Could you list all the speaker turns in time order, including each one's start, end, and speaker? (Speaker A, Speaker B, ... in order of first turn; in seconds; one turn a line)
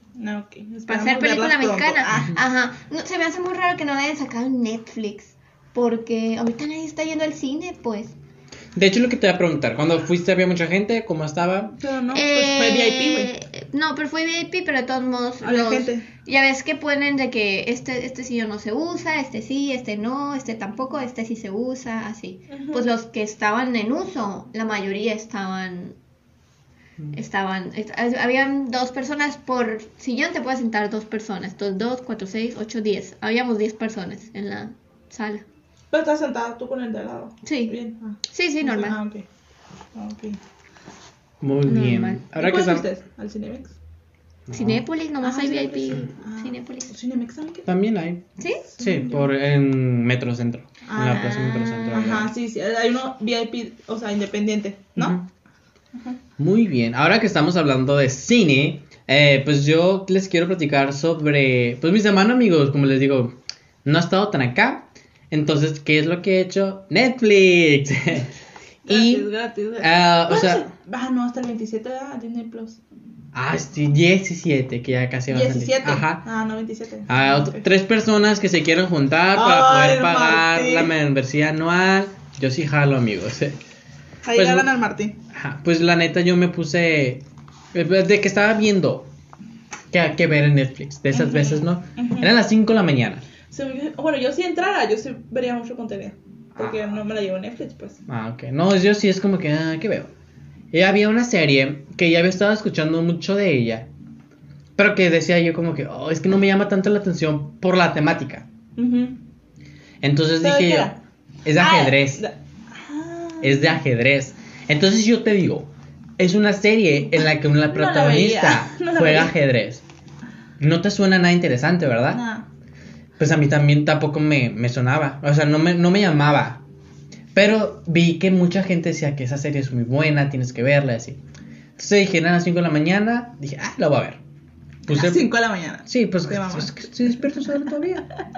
Speaker A: 0.1-2.4
Speaker B: 0.9-8.1
Speaker C: 8.7-11.8
Speaker A: 11.8-13.3
Speaker B: 12.1-25.9
Speaker A: 15.4-16.1
Speaker A: 22.5-22.9
Speaker B: 27.1-35.4
Speaker A: 35.9-39.2
Speaker B: 37.4-37.8
Speaker B: 38.3-39.0
Speaker A: 39.9-40.4
Speaker C: 41.4-42.9
Speaker B: 41.6-42.2
Speaker A: 42.4-43.8
Speaker C: 44.5-44.8
Speaker B: 44.5-46.9
Speaker A: 45.2-47.7
Speaker C: 47.6-48.2
Speaker A: 48.7-49.3
Speaker C: 48.8-52.3
Speaker A: 50.9-51.3
Speaker B: 51.0-52.2
Speaker A: 51.9-55.2
Speaker C: 55.0-55.2
Speaker C: 56.4-68.3
Speaker A: 68.9-72.8
Speaker C: 68.9-69.3
Speaker C: 69.8-70.7
Speaker C: 73.3-76.2
Speaker A: 75.3-77.6
Speaker C: 77.1-83.6
Speaker A: 79.3-80.9
Speaker A: 84.2-85.2
Speaker C: 84.3-84.7
Speaker C: 85.3-89.1
Speaker C: 89.9-93.2
Speaker A: 91.1-92.3
Speaker A: 93.5-98.0
Speaker C: 96.6-97.0
Speaker C: 98.1-100.1
Speaker C: 100.7-103.9
Speaker C: 104.8-108.5
Speaker A: 108.8-109.2
Speaker C: 110.0-112.2
Speaker A: 110.4-111.0
Speaker A: 111.6-113.7
Speaker C: 113.4-119.8
Speaker A: 117.2-119.3
Speaker C: 120.6-122.2
Speaker A: 122.1-122.5
Speaker C: 123.2-126.6
Speaker C: 127.3-131.2
Speaker C: 131.8-134.2
Speaker C: 134.9-135.3
Speaker A: 134.9-136.8
Speaker C: 135.9-138.1